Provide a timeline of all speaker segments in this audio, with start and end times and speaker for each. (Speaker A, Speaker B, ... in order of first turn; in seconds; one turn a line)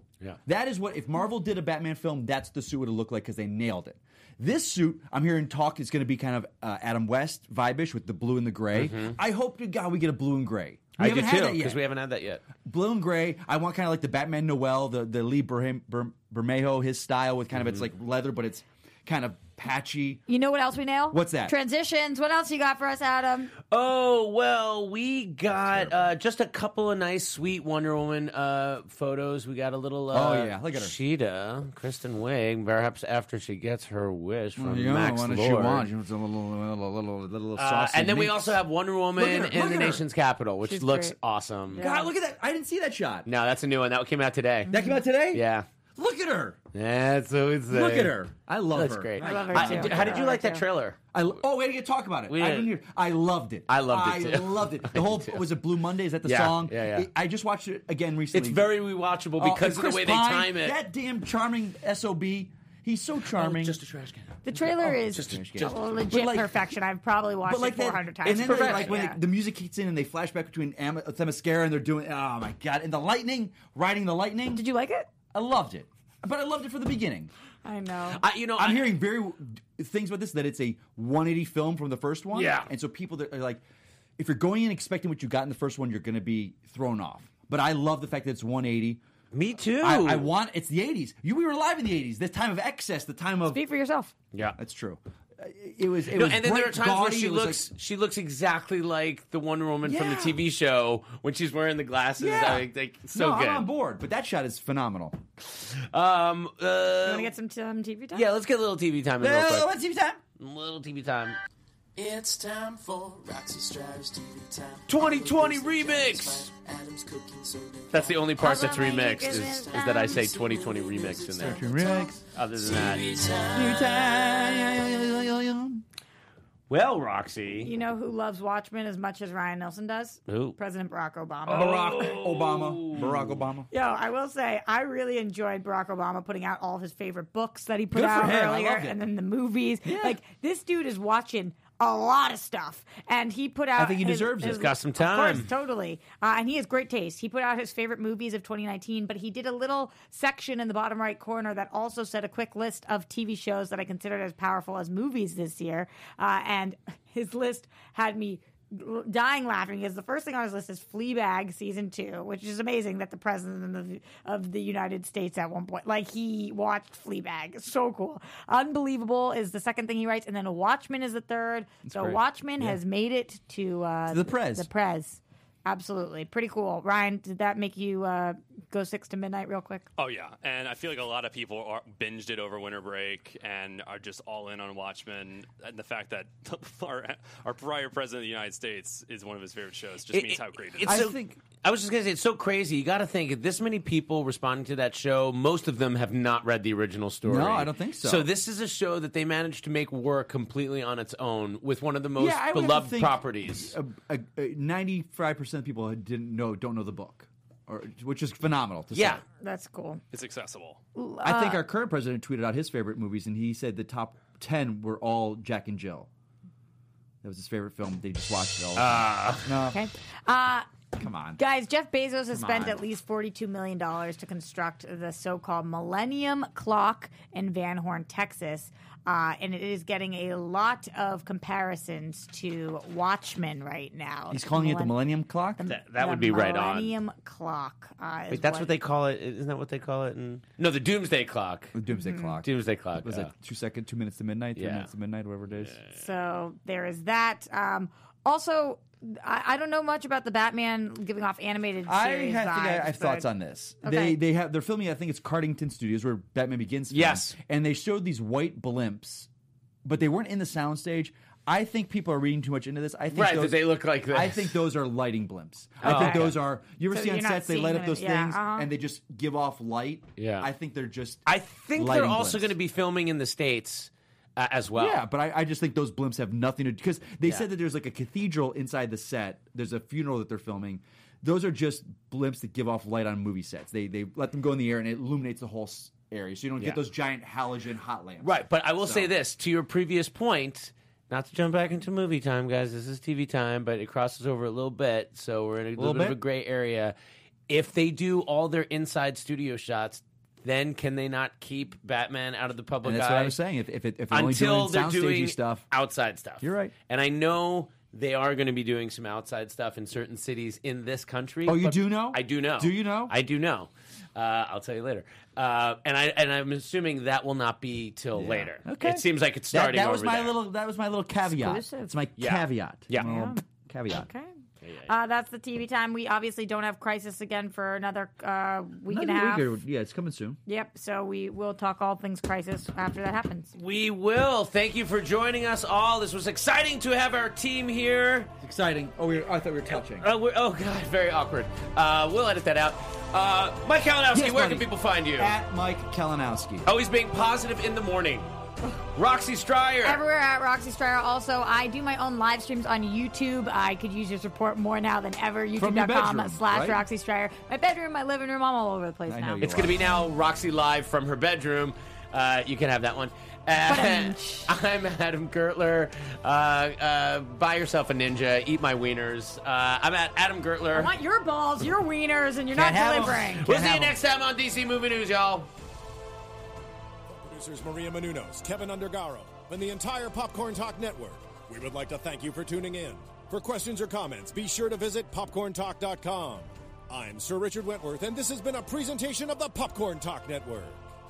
Speaker A: 0.4-11.8
Speaker B: 8.7-9.2
Speaker B: 11.0-12.4
Speaker A: 12.6-20.2
Speaker B: 17.6-17.8
Speaker C: 20.3-23.5
Speaker A: 21.1-21.6
Speaker B: 23.7-35.9
Speaker A: 30.1-30.9
Speaker A: 34.6-38.6
Speaker B: 37.5-41.8
Speaker A: 39.1-40.0
Speaker C: 40.6-41.1
Speaker C: 41.7-42.1
Speaker A: 41.8-43.3
Speaker B: 43.2-44.7
Speaker C: 44.7-45.0
Speaker A: 44.7-45.4
Speaker B: 45.3-45.6
Speaker A: 45.9-46.6
Speaker B: 46.7-51.0
Speaker A: 47.7-50.3
Speaker C: 49.2-50.6
Speaker A: 51.1-58.7
Speaker B: 52.3-52.7
Speaker B: 53.7-55.4
Speaker B: 56.2-57.1
Speaker B: 58.3-60.8
Speaker A: 59.4-63.8
Speaker B: 63.3-65.7
Speaker C: 64.4-69.2
Speaker A: 64.8-66.7
Speaker A: 67.4-74.6
Speaker B: 68.2-69.0
Speaker C: 74.5-75.1
Speaker A: 75.3-77.3
Speaker C: 77.6-78.2
Speaker B: 78.1-79.0
Speaker A: 78.6-83.6
Speaker B: 82.3-82.7
Speaker A: 84.2-89.0
Speaker B: 89.3-90.3
Speaker A: 89.8-93.6
Speaker C: 93.5-94.1
Speaker A: 94.6-97.6
Speaker B: 96.1-103.7
Speaker A: 99.8-100.4
Speaker A: 102.2-105.2
Speaker B: 105.4-107.3
Speaker C: 107.0-108.2
Speaker B: 108.1-109.7
Speaker A: 109.2-110.2
Speaker B: 110.4-111.4
Speaker D: 112.0-123.9
Speaker B: 114.9-116.5
Speaker B: 117.9-121.7
Speaker C: 118.4-120.2
Speaker A: 121.4-122.2
Speaker B: 122.3-123.2
Speaker A: 123.5-125.8
Speaker B: 126.7-127.7
Speaker C: 127.6-131.8
Speaker B: 130.3-130.6
Speaker B: 131.5-133.4
Speaker A: 131.5-133.7
Speaker C: 133.7-179.9
Speaker A: 137.9-139.0
Speaker A: 139.8-140.2
Speaker A: 143.8-144.7
Speaker B: 144.4-145.5
Speaker A: 171.8-172.8
Speaker A: 174.1-174.7
Speaker E: 180.0-191.0
Speaker B: 190.1-203.7
Speaker A: 190.8-191.4
Speaker A: 197.2-198.2
Speaker A: 202.2-209.2
Speaker B: 208.9-209.2
Speaker C: 209.4-210.0
Speaker E: 210.1-210.8
Speaker C: 210.9-211.6
Speaker A: 211.2-216.1
Speaker A: 217.2-219.8
Speaker B: 218.8-219.6
Speaker C: 219.7-220.7
Speaker A: 221.0-221.4
Speaker C: 221.3-234.9
Speaker A: 222.3-222.8
Speaker A: 234.3-235.7
Speaker C: 235.6-238.7
Speaker B: 235.7-237.0
Speaker B: 238.3-241.7
Speaker A: 241.7-242.5
Speaker C: 241.9-242.3
Speaker B: 242.4-243.3
Speaker A: 243.0-245.8
Speaker B: 244.6-244.9
Speaker B: 245.6-245.9
Speaker C: 245.9-253.2
Speaker A: 251.8-259.3
Speaker C: 253.8-254.2
Speaker B: 256.9-257.3
Speaker A: 259.8-271.2
Speaker B: 263.1-264.6
Speaker B: 265.8-266.4
Speaker C: 265.8-266.3
Speaker C: 266.9-268.7
Speaker B: 270.2-270.5
Speaker B: 271.2-275.0
Speaker A: 271.7-272.5
Speaker A: 274.8-289.1
Speaker B: 288.2-296.9
Speaker A: 295.8-296.2
Speaker B: 297.5-303.4
Speaker A: 302.8-305.6
Speaker B: 304.1-320.4
Speaker A: 306.4-306.7
Speaker A: 311.4-313.1
Speaker A: 318.1-324.1
Speaker C: 321.3-321.9
Speaker B: 322.2-323.1
Speaker C: 323.0-323.4
Speaker C: 324.0-324.3
Speaker B: 324.6-324.9
Speaker C: 324.9-329.5
Speaker A: 328.9-330.4
Speaker C: 330.5-333.5
Speaker B: 333.5-338.3
Speaker A: 338.4-340.1
Speaker B: 339.7-345.3
Speaker A: 344.1-346.7
Speaker B: 346.6-348.3
Speaker B: 348.9-350.0
Speaker C: 349.8-359.5
Speaker A: 355.6-356.8
Speaker A: 359.1-359.8
Speaker B: 359.4-370.9
Speaker C: 363.6-364.5
Speaker C: 370.7-373.4
Speaker A: 372.5-374.0
Speaker B: 373.4-375.5
Speaker F: 377.1-390.8